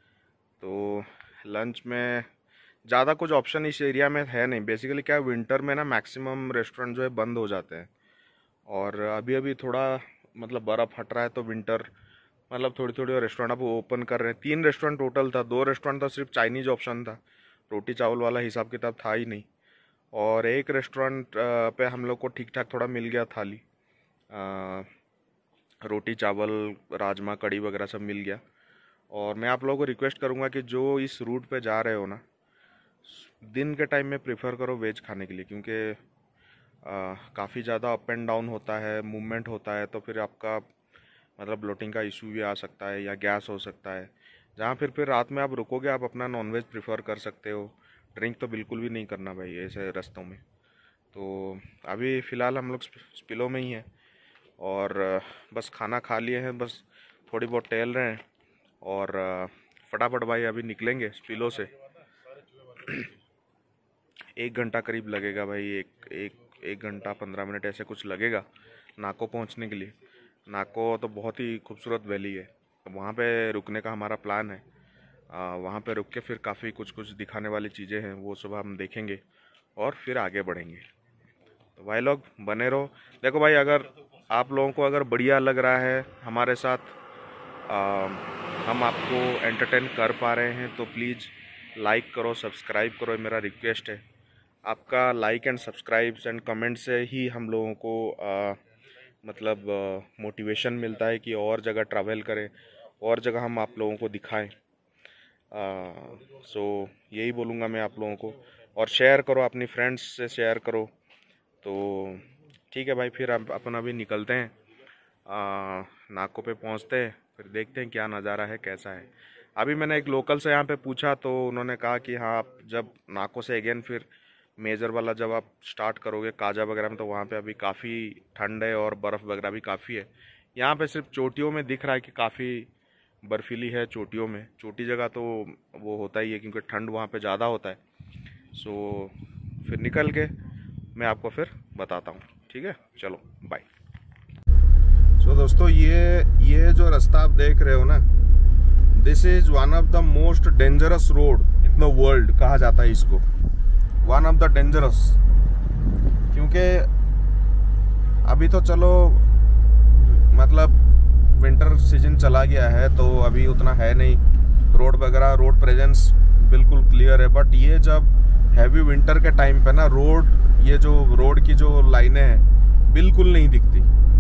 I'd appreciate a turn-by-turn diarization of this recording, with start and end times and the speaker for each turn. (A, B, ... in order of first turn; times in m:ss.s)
0:00.6-0:02.3 A
0:02.9-0:07.9 A
0:08.7-0:11.9 A
0:12.5-0:17.2 A
0:17.7-0:19.5 A
0:20.1-0:23.6 A
0:24.3-0:24.9 A
0:25.8-0:28.4 A
0:29.1-0:32.2 A
0:33.0-0:36.0 A
0:36.8-0:40.6 A
0:41.4-0:50.4 A
0:51.1-0:53.9 A
0:54.6-0:58.2 A
0:58.8-1:01.7 A
1:02.8-1:03.1 A
1:04.4-1:08.5 A
1:09.0-1:09.9 A
1:10.5-1:14.6 A
1:15.3-1:19.2 A
1:19.8-1:20.9 A
1:21.8-1:27.0 A
1:27.7-1:34.0 A
1:34.6-1:38.6 A
1:39.2-1:44.5 A
1:45.5-1:50.9 A
1:51.6-1:54.6 A
1:55.3-2:12.7 A
2:13.2-2:17.8 A
2:18.5-2:20.3 A
2:21.0-2:23.7 A
2:25.2-2:28.1 A
2:29.0-2:33.2 A
2:34.0-2:35.2 A
2:36.3-2:36.9 A
2:38.2-2:39.3 A
2:40.0-2:40.8 A
2:41.3-2:44.2 A
2:44.7-2:53.9 A